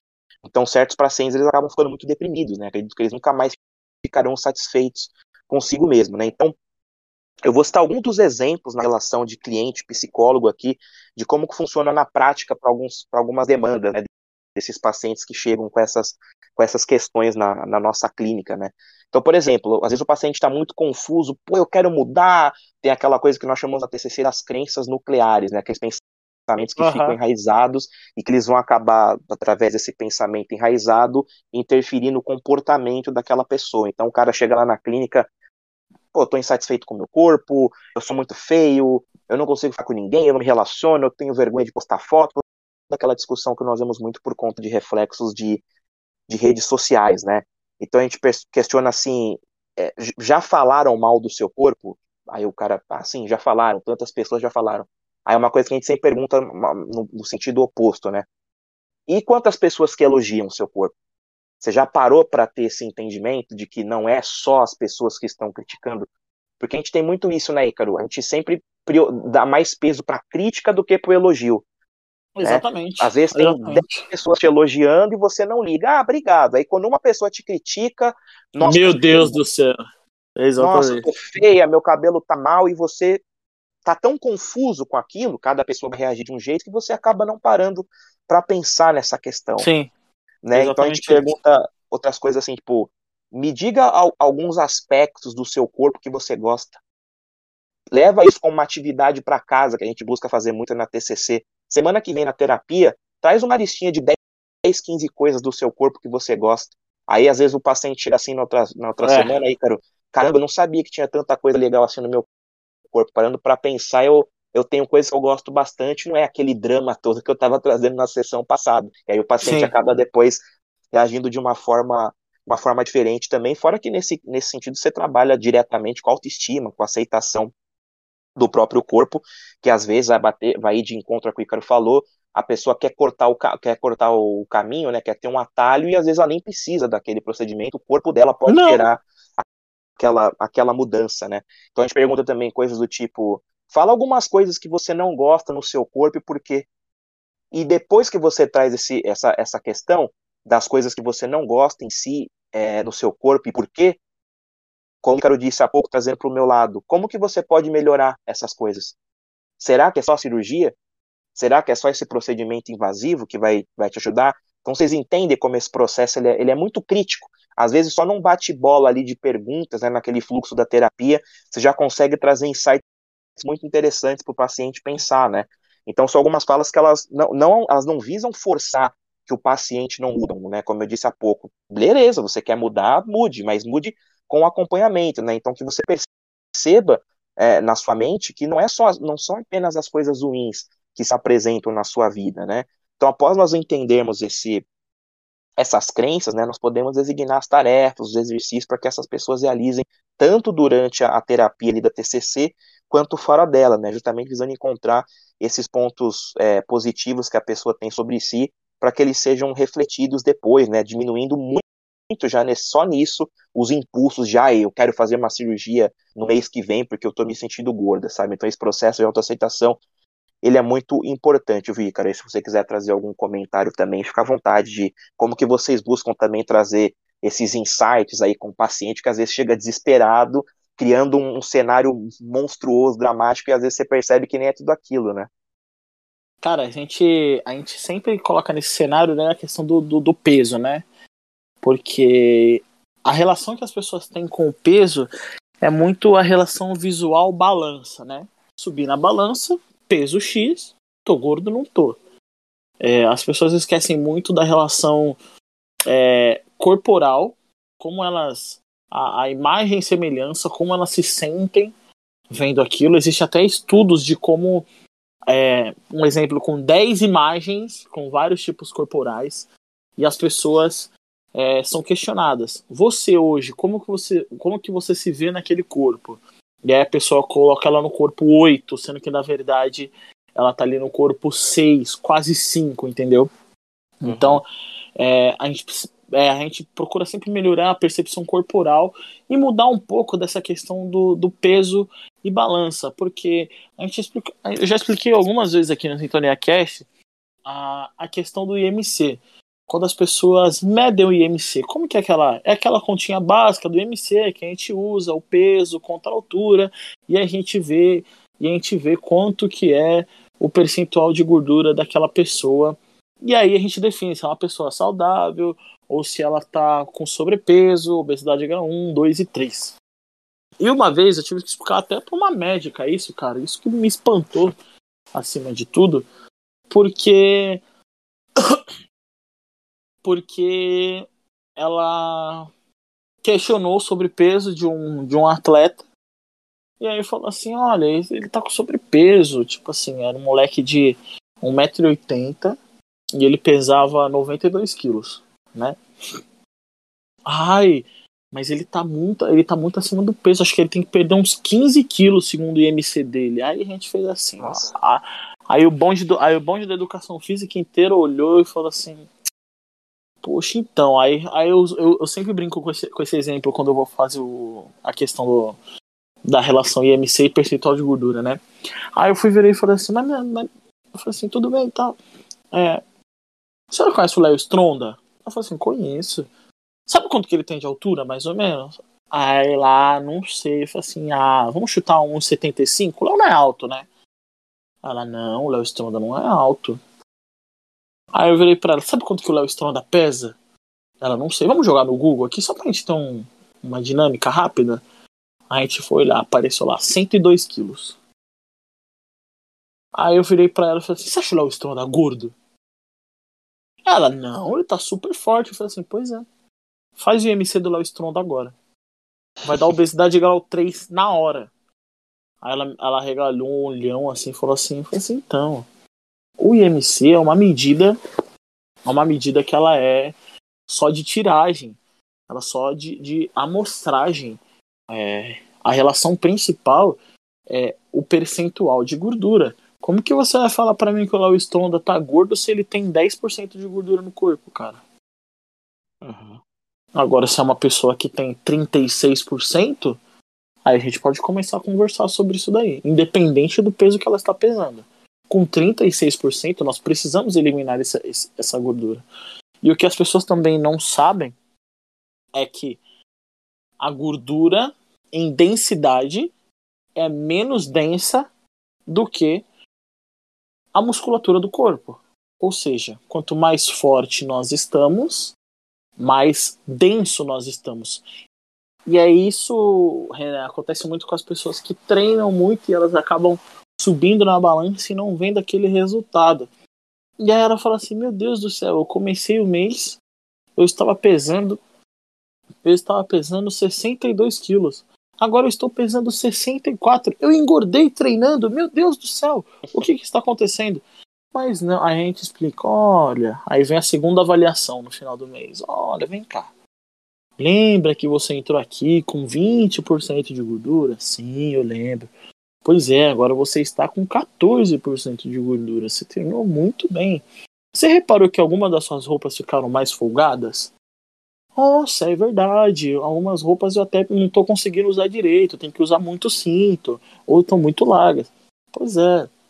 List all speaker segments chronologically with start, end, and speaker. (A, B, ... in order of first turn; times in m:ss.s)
0:00.4-0:06.5 A
0:07.4-0:35.3 A
0:26.8-0:27.2 B
0:36.1-0:45.6 A
0:46.3-0:58.3 A
0:59.1-1:00.9 A
1:01.6-1:06.1 A
1:06.6-1:11.6 A
1:12.4-1:14.1 B
1:12.4-1:19.4 A
1:18.6-1:19.8 B
1:20.4-1:21.1 B
1:20.6-1:23.2 A
1:23.8-1:29.7 A
1:29.6-1:29.9 B
1:30.4-1:36.7 A
1:30.6-1:31.3 B
1:37.9-1:52.3 A
1:49.0-1:49.3 B
1:52.9-2:00.4 A
1:59.4-1:59.7 B
2:00.9-2:07.5 A
2:08.4-2:19.0 A
2:18.5-2:18.8 B
2:20.0-2:26.7 A
2:27.5-2:34.0 A
2:35.0-2:39.0 A
2:39.6-2:40.8 A
2:41.4-2:52.8 A
2:53.4-3:14.6 A
3:15.6-3:39.8 A
3:40.4-3:55.3 A
3:56.4-4:00.8 B
4:01.6-4:05.1 B
4:05.6-4:12.0 B
4:12.8-4:15.2 B
4:15.9-4:21.7 B
4:22.3-4:24.7 B
4:25.3-4:43.3 B
4:44.0-4:44.4 B
4:44.0-4:44.4 A
4:45.0-4:56.9 B
4:57.5-5:19.8 B
5:20.6-5:24.6 B
5:25.1-5:26.1 B
5:26.7-5:27.6 B
5:30.0-5:31.1 B
5:31.6-5:32.5 B
5:33.2-5:35.8 B
5:36.8-5:42.6 B
5:43.2-5:45.8 B
5:47.3-5:59.1 B
5:54.4-5:54.7 A
6:00.2-6:05.6 B
6:06.3-6:08.4 B
6:09.0-6:12.0 B
6:12.5-6:12.8 B
6:13.7-6:16.3 B
6:16.9-6:23.9 B
6:24.8-6:26.8 B
6:28.1-6:30.4 B
6:31.0-6:34.8 B
6:35.5-6:38.0 B
6:40.0-6:42.3 B
6:43.9-6:46.3 B
6:47.0-6:48.5 B
6:49.5-6:51.5 B
6:49.5-6:49.8 A
6:52.4-6:55.7 B
6:56.4-6:58.0 B
6:58.9-7:00.2 B
7:00.7-7:01.8 B
7:02.3-7:04.4 B
7:04.9-7:07.0 B
7:07.5-7:14.8 B
7:16.0-7:16.4 A
7:17.0-7:20.0 B
7:20.6-7:29.0 B
7:29.6-7:31.4 B
7:32.3-7:32.8 B
7:33.8-7:36.3 B
7:37.0-7:38.3 B
7:38.9-7:39.4 B
7:40.7-7:45.4 B
7:46.0-7:48.0 B
7:48.9-7:56.5 B
7:57.2-8:00.0 B
8:00.6-8:01.6 B
8:02.6-8:10.8 B
8:11.3-8:16.5 B
8:17.4-8:22.1 B
8:22.6-8:27.2 B
8:27.8-8:30.7 B
8:31.6-8:39.3 B